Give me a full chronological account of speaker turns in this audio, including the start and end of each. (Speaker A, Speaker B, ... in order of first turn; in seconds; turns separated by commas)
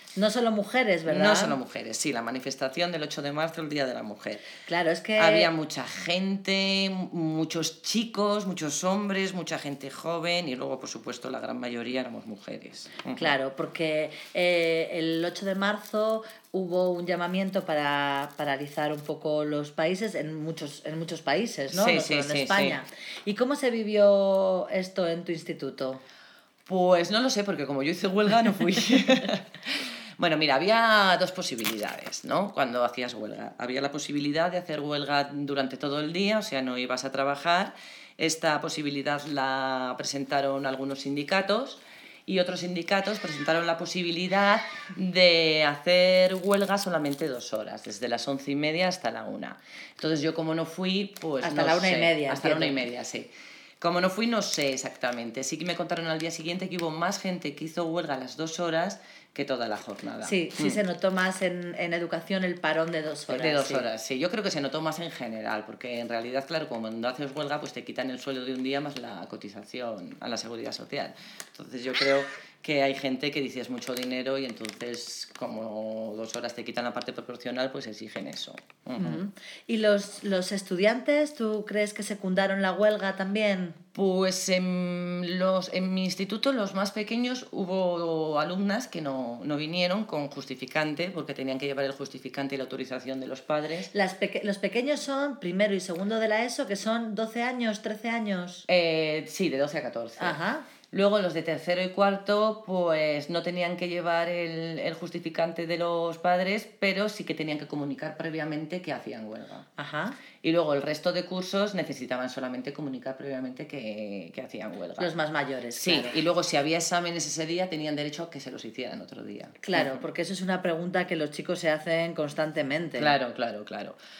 Speaker A: 0.1-1.6, Speaker B: 1.1-4.4, Speaker A: 4.6-5.5, Speaker B: 5.2-13.3, Speaker A: 13.2-26.0, Speaker B: 21.7-22.8, Speaker B: 26.7-60.8, Speaker A: 51.4-52.8, Speaker A: 60.2-63.8, Speaker B: 63.3-79.2, Speaker A: 79.0-83.8, Speaker B: 83.9-93.9, Speaker A: 93.9-98.6, Speaker B: 98.7-100.4, Speaker A: 100.2-100.6, Speaker B: 100.9-109.7, Speaker A: 109.8-110.2, Speaker B: 110.4-115.1, Speaker A: 115.0-116.2, Speaker B: 115.7-120.0, Speaker A: 119.6-123.1, Speaker B: 123.0-124.0